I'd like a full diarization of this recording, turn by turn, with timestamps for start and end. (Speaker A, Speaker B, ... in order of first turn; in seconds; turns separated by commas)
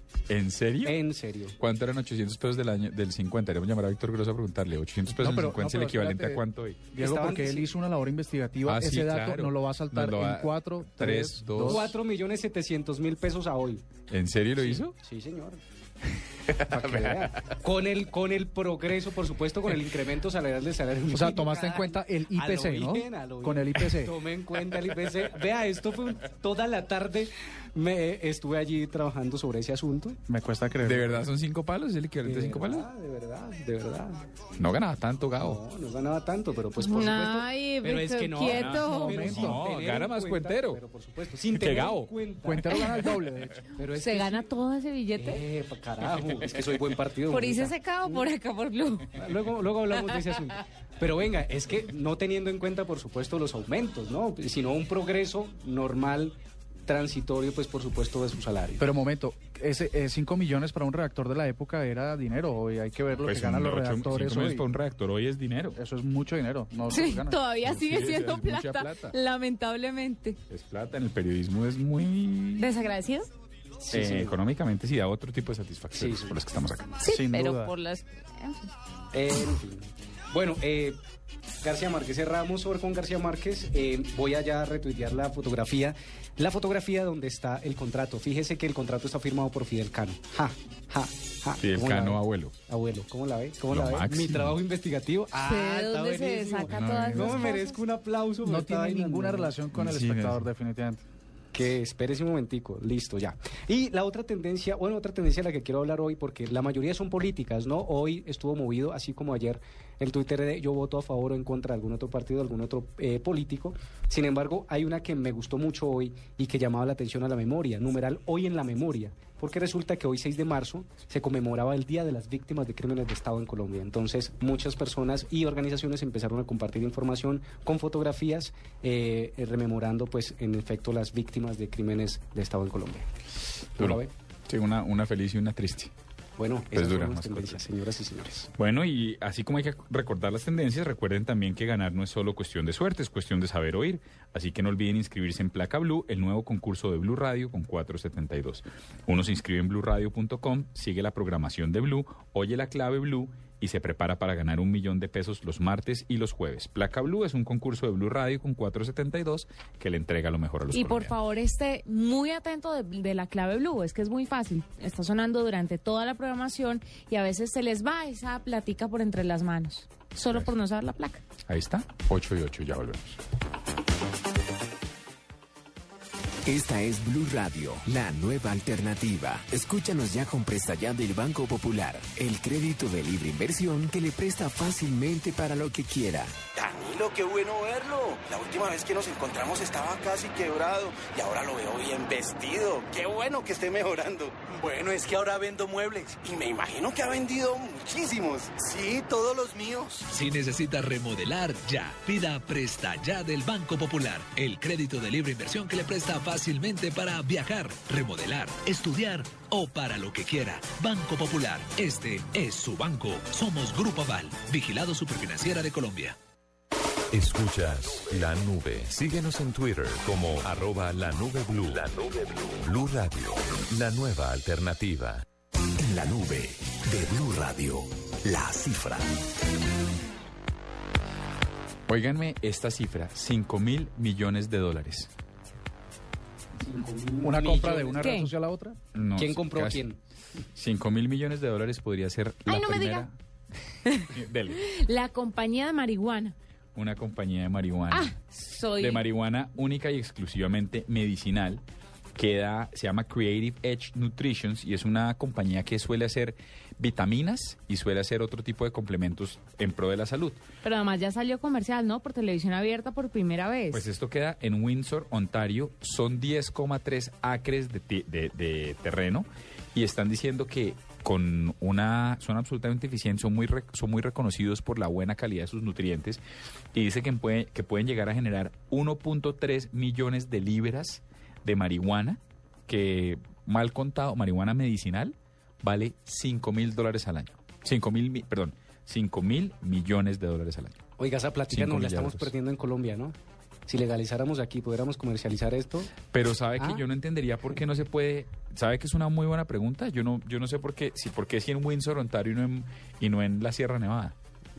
Speaker A: 0.3-1.0, Speaker B: 0.8-1.6, Speaker A: 1.6-6.9, Speaker C: 5.2-6.4, Speaker C: 6.9-11.9, Speaker B: 7.0-7.7, Speaker A: 8.7-11.9, Speaker B: 11.7-13.8, Speaker A: 14.1-14.9, Speaker B: 14.6-15.6, Speaker B: 16.5-30.2, Speaker C: 21.1-24.1, Speaker C: 30.3-31.3, Speaker A: 30.8-32.9, Speaker B: 32.2-34.3, Speaker A: 34.6-35.6, Speaker B: 35.4-42.7, Speaker D: 36.8-39.4, Speaker A: 38.5-40.8, Speaker C: 39.0-39.7, Speaker A: 41.5-42.1, Speaker C: 42.4-43.6, Speaker B: 43.8-44.5, Speaker D: 44.0-45.4, Speaker B: 45.2-48.3, Speaker D: 47.3-49.1, Speaker B: 49.1-56.4, Speaker B: 56.9-58.9, Speaker C: 58.8-64.7, Speaker A: 63.2-65.8, Speaker C: 65.8-67.4, Speaker D: 66.9-70.4, Speaker A: 67.7-69.2, Speaker A: 70.5-72.7, Speaker D: 72.6-73.3, Speaker B: 73.9-74.4, Speaker A: 73.9-77.0, Speaker B: 76.0-76.4, Speaker D: 77.0-78.7, Speaker C: 77.1-77.7, Speaker B: 79.1-81.0, Speaker B: 81.6-99.5, Speaker A: 91.6-92.6, Speaker A: 93.7-94.6, Speaker D: 95.4-97.8, Speaker C: 96.7-97.5, Speaker C: 98.4-101.0, Speaker A: 99.8-100.4, Speaker B: 101.5-133.1, Speaker B: 133.8-134.1, Speaker A: 133.8-135.9, Speaker B: 136.4-138.5, Speaker A: 136.7-137.6, Speaker A: 138.6-161.2, Speaker D: 160.7-171.2, Speaker A: 171.5-173.2, Speaker E: 176.5-186.4, Speaker F: 186.6-200.0, Speaker G: 200.1-216.2, Speaker H: 217.1-225.2, Speaker E: 225.8-228.8, Speaker A: 231.9-235.1, Speaker B: 236.6-238.1, Speaker C: 237.2-238.8, Speaker D: 238.0-238.3, Speaker A: 238.9-239.8, Speaker B: 239.2-240.0, Speaker A: 240.6-243.2, Speaker D: 242.5-243.1, Speaker A: 244.1-244.6, Speaker D: 244.6-246.3, Speaker A: 246.8-248.1, Speaker D: 247.9-249.0, Speaker A: 248.8-251.6, Speaker A: 252.2-260.4, Speaker D: 260.6-263.8, Speaker A: 263.7-276.2, Speaker A: 276.7-290.8, Speaker B: 291.0-293.1, Speaker A: 291.5-292.3, Speaker B: 293.7-296.0, Speaker A: 296.1-304.1